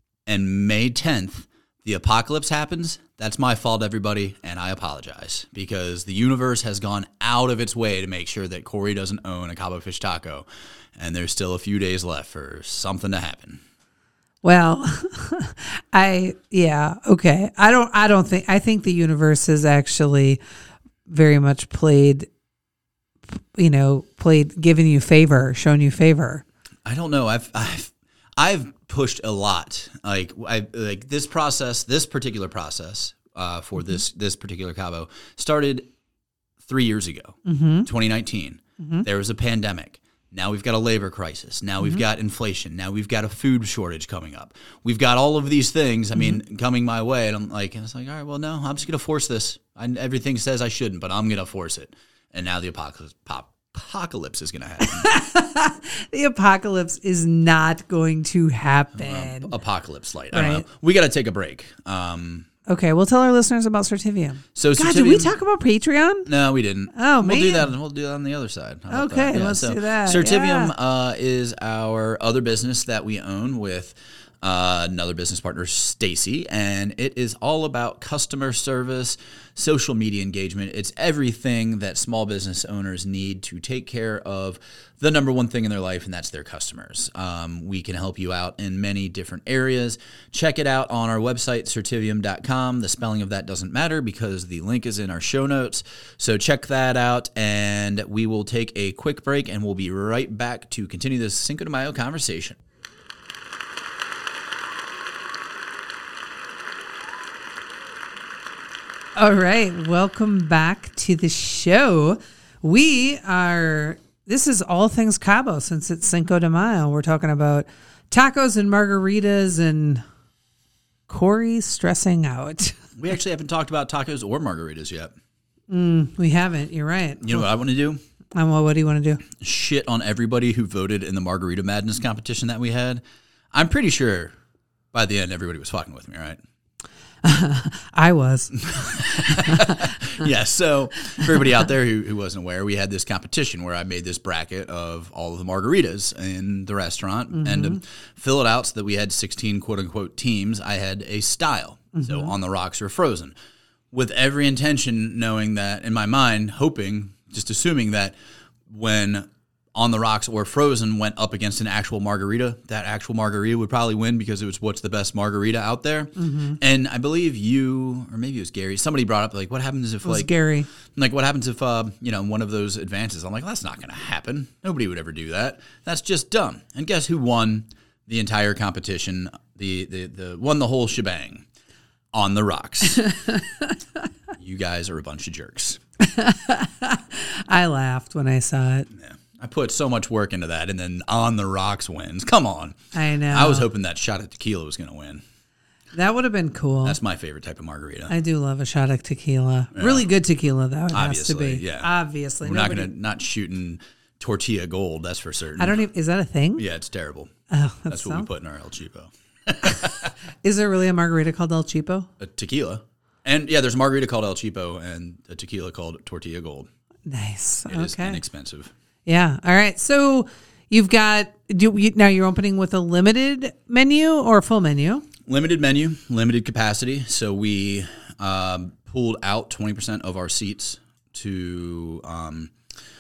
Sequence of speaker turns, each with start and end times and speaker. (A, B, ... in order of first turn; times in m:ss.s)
0:00.3-0:13.6 A
0:14.4-0:20.4 B
0:21.1-0:22.3 B
0:23.3-0:26.4 B
0:26.8-0:35.9 A
0:36.6-0:55.1 A
0:37.4-0:37.9 B
0:38.8-0:39.0 B
0:54.8-0:59.5 B
0:59.0-1:02.5 A
1:00.3-1:00.6 B
1:02.7-1:06.3 B
1:04.6-1:05.4 A
1:06.3-1:42.6 A
1:06.9-1:07.7 B
1:08.9-1:10.7 B
1:49.2-2:00.0 B
2:01.1-2:02.8 B
2:03.0-2:05.2 A
2:05.7-2:07.5 B
2:07.2-2:08.0 A
2:08.4-2:09.2 B
2:09.3-2:14.4 A
2:14.9-2:16.4 A
2:17.2-2:19.9 B
2:18.6-2:33.4 A
2:27.3-2:27.8 B
2:31.9-2:32.3 B
2:33.9-3:01.5 A
2:46.2-2:46.6 B
2:50.0-2:50.7 B
3:02.1-3:03.2 A
3:03.0-3:03.8 B
3:04.4-3:05.8 A
3:06.0-3:08.9 B
3:08.9-3:12.8 A
3:12.9-3:13.7 B
3:13.3-3:15.2 A
3:15.9-3:17.0 B
3:16.8-3:18.1 A
3:18.1-3:22.9 B
3:19.7-3:20.1 A
3:20.9-3:21.9 A
3:22.4-3:25.8 A
3:25.6-3:26.6 B
3:26.6-3:27.3 A
3:27.5-3:28.3 B
3:27.9-3:30.1 A
3:30.4-3:32.1 B
3:32.2-3:36.7 A
3:37.1-3:38.2 B
3:37.7-3:38.7 A
3:39.1-3:45.1 B
3:45.3-3:52.5 A